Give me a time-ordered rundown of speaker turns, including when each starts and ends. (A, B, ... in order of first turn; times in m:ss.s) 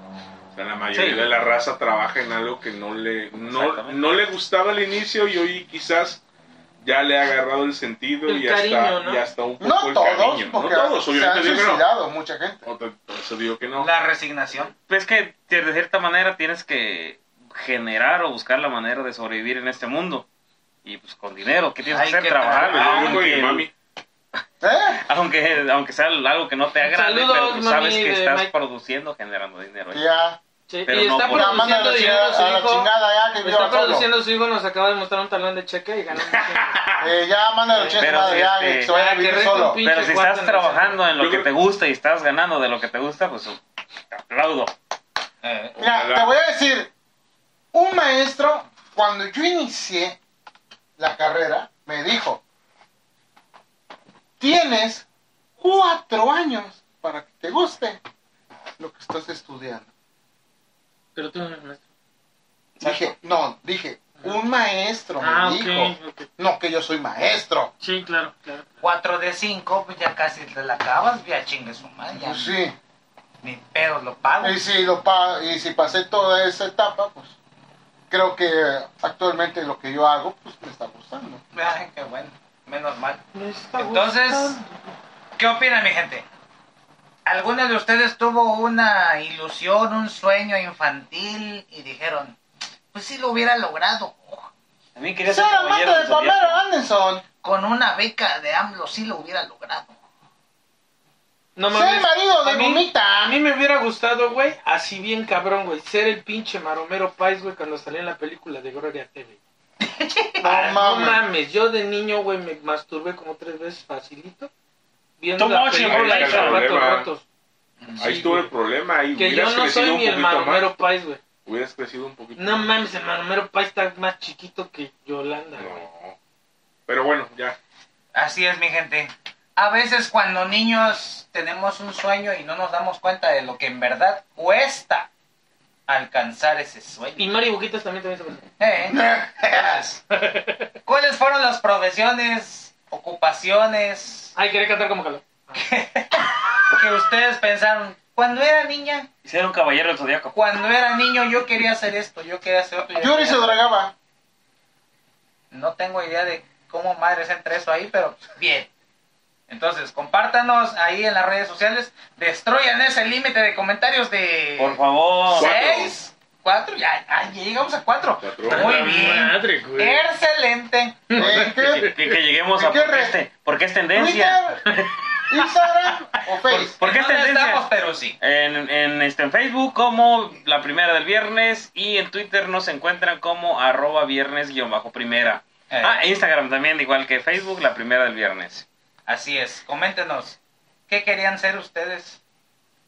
0:00.5-0:06.2 A
0:00.9-0:01.3 B
0:03.4-0:04.1 B
0:06.8-0:11.8 A
0:08.3-0:09.2 C
0:09.6-0:12.7 D
0:12.6-0:13.9 A
0:13.8-0:14.7 E
0:14.9-0:20.3 B
0:20.8-0:23.7 B
0:21.9-0:23.3 E
0:22.6-0:23.7 A
0:24.6-0:25.0 D
0:24.9-0:30.0 B
0:26.8-0:28.5 C
0:29.9-0:30.4 D
0:30.7-0:32.9 C
0:30.9-0:31.7 B
0:31.3-0:34.1 D
0:33.4-0:36.8 C
0:36.5-0:37.1 A
0:37.0-0:39.8 D
0:38.0-0:38.9 B
0:38.9-0:41.0 C
0:39.8-0:43.6 B
0:41.2-0:41.5 A
0:44.1-0:44.7 B
0:45.4-0:45.8 E
0:45.8-0:46.9 D
0:45.8-0:46.3 A
0:47.7-0:50.2 D
0:51.0-0:52.4 D
0:54.4-0:55.1 D
0:55.6-0:58.0 D
0:58.8-0:59.9 D
1:01.2-1:01.8 C
1:02.8-1:03.1 B
1:02.8-1:07.7 D
1:05.2-1:06.3 C
1:07.8-1:08.6 C
1:08.8-1:12.6 E
1:12.2-1:12.8 D
1:13.4-1:14.6 E
1:14.4-1:17.4 D
1:18.1-1:21.4 D
1:21.5-1:23.2 E
1:23.3-1:24.9 C
1:23.8-1:24.6 E
1:25.4-1:26.2 E
1:27.3-1:32.4 E
1:32.9-1:34.5 E
1:35.0-1:36.6 B
1:35.2-1:37.2 D
1:37.4-1:40.0 E
1:41.6-1:49.4 C
1:41.7-1:43.4 D
1:49.8-1:50.7 E
1:50.4-1:51.2 D
1:50.5-1:54.5 C
1:55.2-1:57.2 C
1:55.4-1:56.8 B
1:55.8-1:57.1 A
1:57.8-1:58.1 E
1:58.0-1:58.5 C
1:58.0-2:00.7 A
1:59.2-2:01.2 C
2:01.4-2:02.7 A
2:02.4-2:05.9 C
2:05.6-2:06.2 A
2:06.9-2:07.6 A
2:08.2-2:15.1 E
2:15.9-2:17.3 E
2:17.2-2:18.4 C
2:18.6-2:20.0 E
2:19.0-2:19.6 D
2:20.2-2:20.5 C
2:20.9-2:24.4 E
2:24.4-2:25.6 C
2:25.6-2:29.1 E
2:29.2-2:30.4 B
2:30.3-2:33.7 E
2:33.0-2:33.9 D
2:35.5-2:38.7 E
2:39.5-2:51.2 E
2:44.6-2:45.6 B
2:45.3-2:45.9 A
2:48.2-2:48.9 A
2:48.4-2:50.0 C
2:51.1-2:52.2 C
2:51.2-2:52.0 D
2:51.5-2:54.4 B
2:52.6-2:53.2 D
2:53.9-2:54.7 D
2:54.7-2:55.5 C
2:55.3-2:56.8 D
2:56.5-2:58.2 E
2:56.8-2:57.6 B
2:58.2-3:08.7 B
3:05.7-3:06.1 E
3:09.1-3:10.4 E
3:10.9-3:12.2 E